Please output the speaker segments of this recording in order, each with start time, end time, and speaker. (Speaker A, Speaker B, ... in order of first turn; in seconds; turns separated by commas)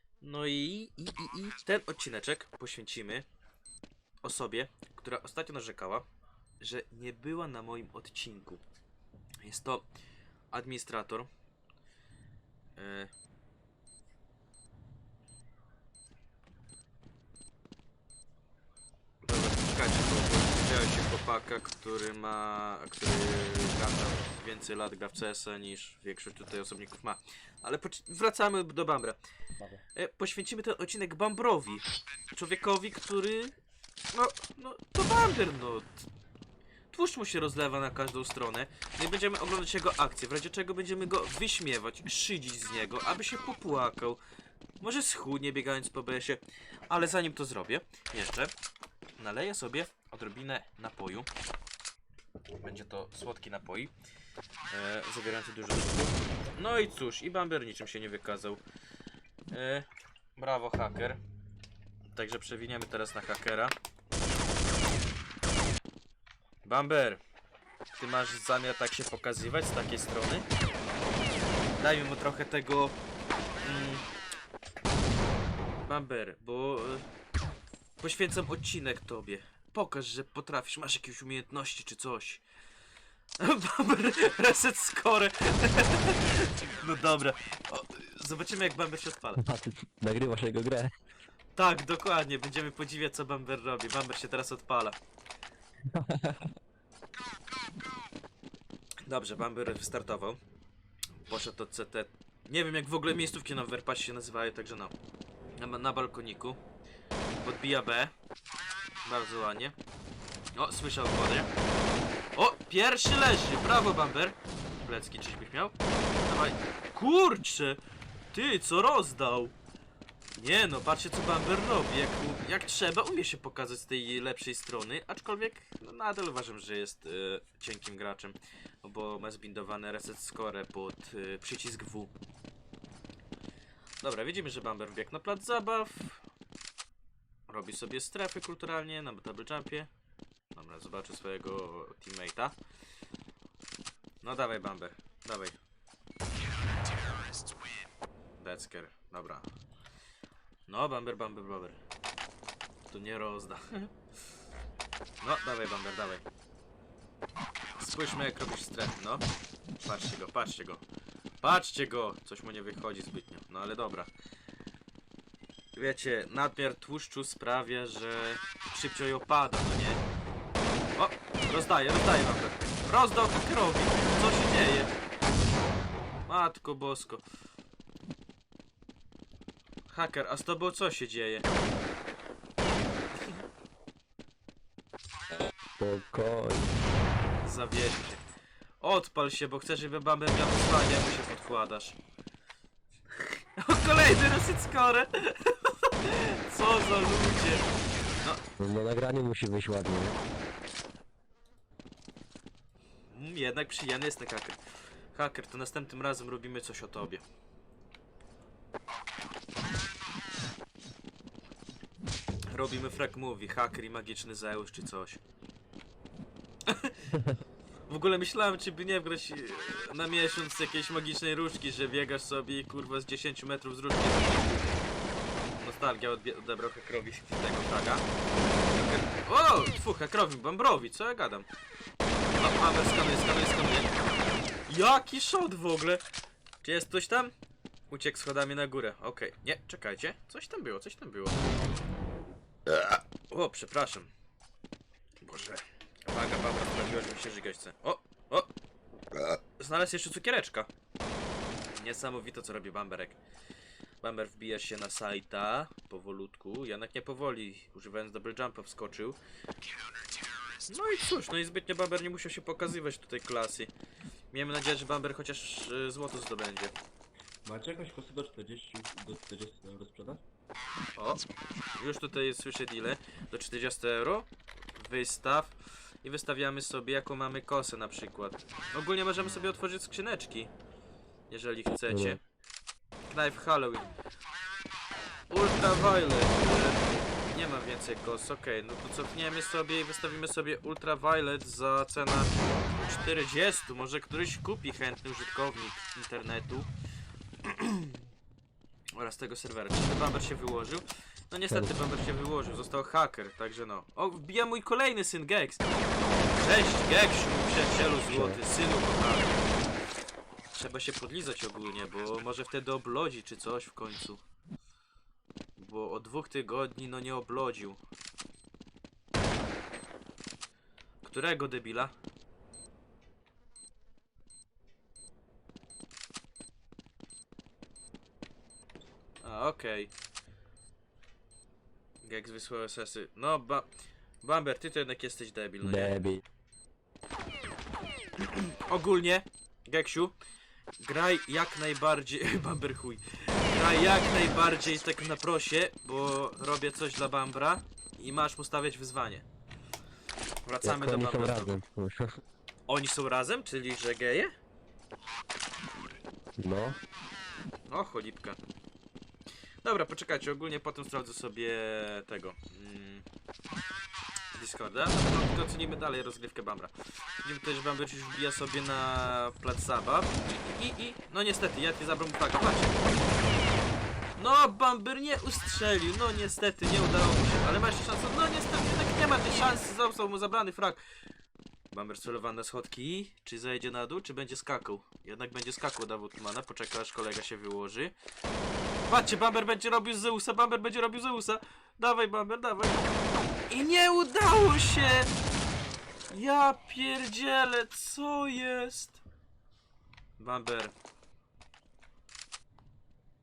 Speaker A: 0.2-3.2, Speaker A: 4.2-6.0, Speaker A: 6.6-8.6, Speaker A: 9.4-9.9, Speaker A: 10.5-11.3, Speaker A: 12.8-13.1, Speaker A: 19.2-29.2, Speaker A: 29.9-33.5, Speaker A: 34.1-36.0, Speaker A: 36.9-44.2, Speaker A: 44.8-48.5, Speaker A: 49.2-51.3, Speaker A: 52.6-53.9, Speaker A: 54.7-58.6, Speaker A: 59.5-59.9, Speaker A: 60.4-61.2, Speaker A: 62.1-63.7, Speaker A: 66.6-67.2, Speaker A: 68.0-70.5, Speaker A: 71.8-73.0, Speaker A: 73.6-74.0, Speaker A: 75.8-77.0, Speaker A: 78.0-82.4, Speaker A: 83.4-89.4, Speaker B: 89.4-90.9, Speaker A: 91.5-95.0, Speaker B: 95.9-96.5, Speaker A: 99.0-100.4, Speaker A: 101.3-104.9, Speaker A: 105.6-106.6, Speaker A: 107.4-108.1, Speaker A: 109.0-109.8, Speaker A: 110.5-111.5, Speaker A: 112.3-117.8, Speaker A: 118.3-119.5, Speaker A: 120.3-132.1, Speaker A: 134.0-136.2, Speaker A: 137.5-139.9, Speaker A: 140.5-142.6, Speaker A: 144.2-145.5, Speaker A: 148.4-149.4, Speaker A: 150.7-151.8, Speaker A: 152.9-153.9, Speaker A: 155.2-156.2, Speaker A: 157.8-159.2, Speaker A: 159.8-160.8, Speaker A: 161.4-164.1, Speaker A: 165.8-170.0, Speaker A: 170.9-174.9, Speaker A: 176.3-177.2, Speaker A: 179.9-181.5, Speaker B: 185.8-186.7, Speaker A: 187.4-188.2, Speaker A: 188.8-192.0, Speaker A: 193.6-197.7, Speaker B: 198.6-200.2, Speaker A: 203.1-204.6, Speaker A: 205.1-207.2, Speaker A: 212.5-215.2, Speaker A: 216.7-217.2, Speaker A: 217.9-224.8, Speaker A: 225.6-228.0, Speaker A: 228.7-231.5, Speaker A: 232.3-233.9, Speaker A: 234.7-236.0, Speaker A: 236.6-237.3, Speaker A: 237.9-241.4, Speaker A: 242.7-244.1, Speaker A: 245.2-248.5, Speaker A: 249.6-250.7, Speaker A: 251.8-253.2, Speaker A: 254.0-259.2, Speaker A: 260.7-263.7, Speaker A: 264.3-266.7, Speaker C: 267.4-270.2, Speaker A: 271.0-271.2, Speaker A: 271.8-280.5, Speaker A: 281.3-282.2, Speaker B: 281.9-282.2, Speaker A: 283.1-283.9, Speaker A: 285.3-296.7, Speaker A: 297.4-298.0, Speaker A: 299.0-305.8, Speaker A: 306.4-309.4, Speaker B: 308.0-308.4, Speaker A: 310.5-314.2, Speaker A: 315.6-317.8, Speaker A: 321.0-321.9, Speaker A: 329.2-329.9, Speaker A: 332.0-333.7, Speaker A: 334.2-336.0, Speaker B: 335.6-336.2, Speaker A: 338.2-340.1, Speaker A: 340.8-349.2, Speaker A: 350.4-351.6, Speaker B: 350.6-352.2, Speaker A: 352.7-354.3, Speaker B: 356.4-356.8, Speaker A: 357.7-358.4, Speaker A: 359.6-363.0, Speaker A: 364.3-366.7, Speaker A: 367.2-372.8, Speaker A: 374.2-380.8, Speaker A: 381.7-387.9, Speaker A: 388.9-392.8, Speaker A: 393.5-395.1, Speaker A: 396.1-399.0, Speaker A: 400.2-400.7